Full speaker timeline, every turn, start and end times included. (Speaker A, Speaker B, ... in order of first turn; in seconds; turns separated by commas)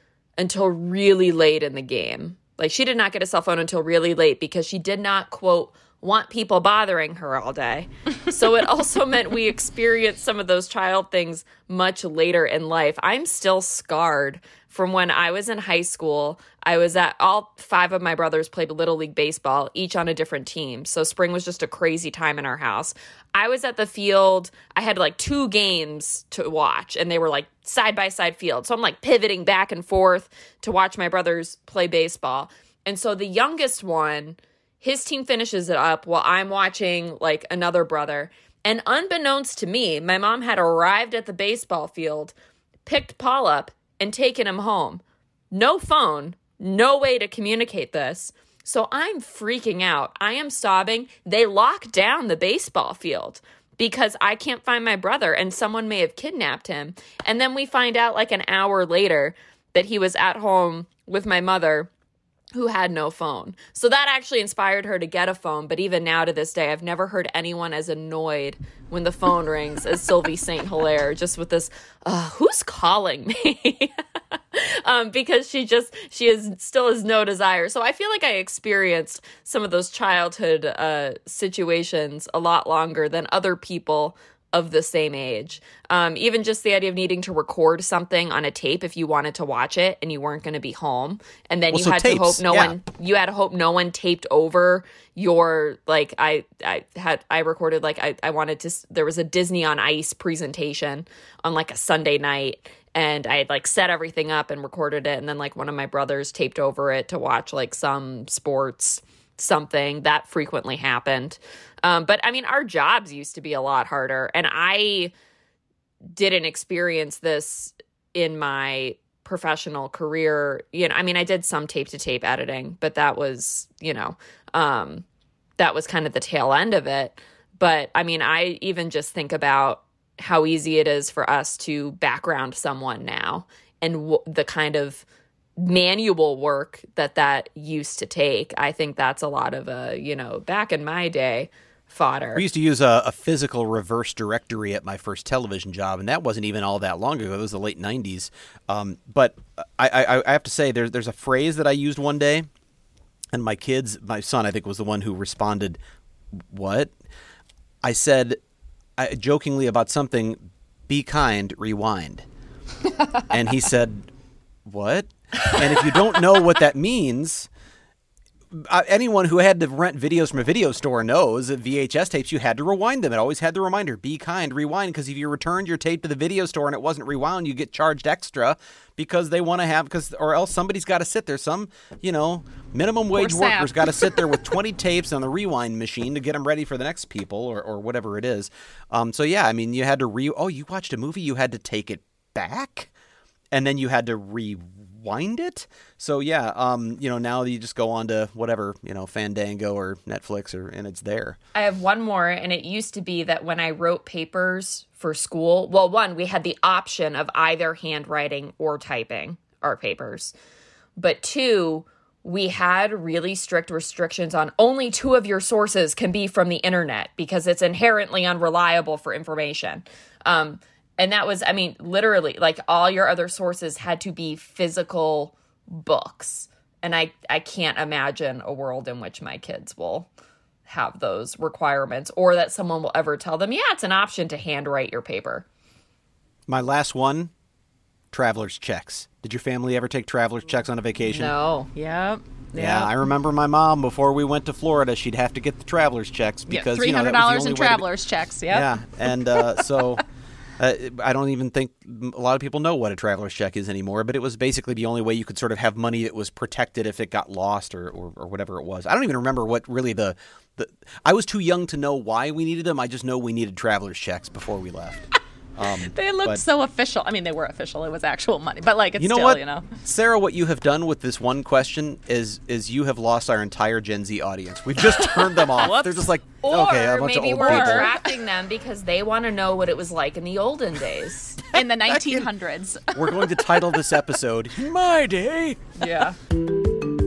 Speaker A: 0.4-42.3, Speaker A: 42.9-61.9, Speaker A: 62.5-115.1, Speaker B: 91.7-92.8, Speaker A: 116.1-125.0, Speaker A: 125.6-135.1, Speaker A: 135.6-142.4, Speaker B: 142.3-152.5, Speaker B: 153.3-155.8, Speaker B: 156.3-156.9, Speaker B: 157.8-158.4, Speaker B: 159.0-162.3, Speaker B: 163.3-164.1, Speaker B: 164.7-167.5, Speaker B: 168.5-192.9, Speaker C: 183.1-184.2, Speaker B: 193.5-201.4, Speaker A: 201.6-210.3, Speaker A: 211.0-230.1, Speaker A: 230.7-235.4, Speaker B: 236.5-237.3, Speaker B: 238.1-241.3, Speaker A: 241.1-241.7, Speaker C: 241.8-243.0, Speaker B: 242.6-247.9, Speaker C: 246.5-249.9, Speaker B: 248.5-250.0, Speaker B: 250.6-266.4, Speaker C: 265.9-269.7, Speaker B: 269.0-278.0, Speaker C: 275.0-276.1, Speaker A: 276.4-281.5, Speaker C: 277.3-277.9, Speaker C: 281.5-283.3, Speaker B: 281.6-282.3, Speaker B: 282.9-285.8, Speaker C: 285.8-286.2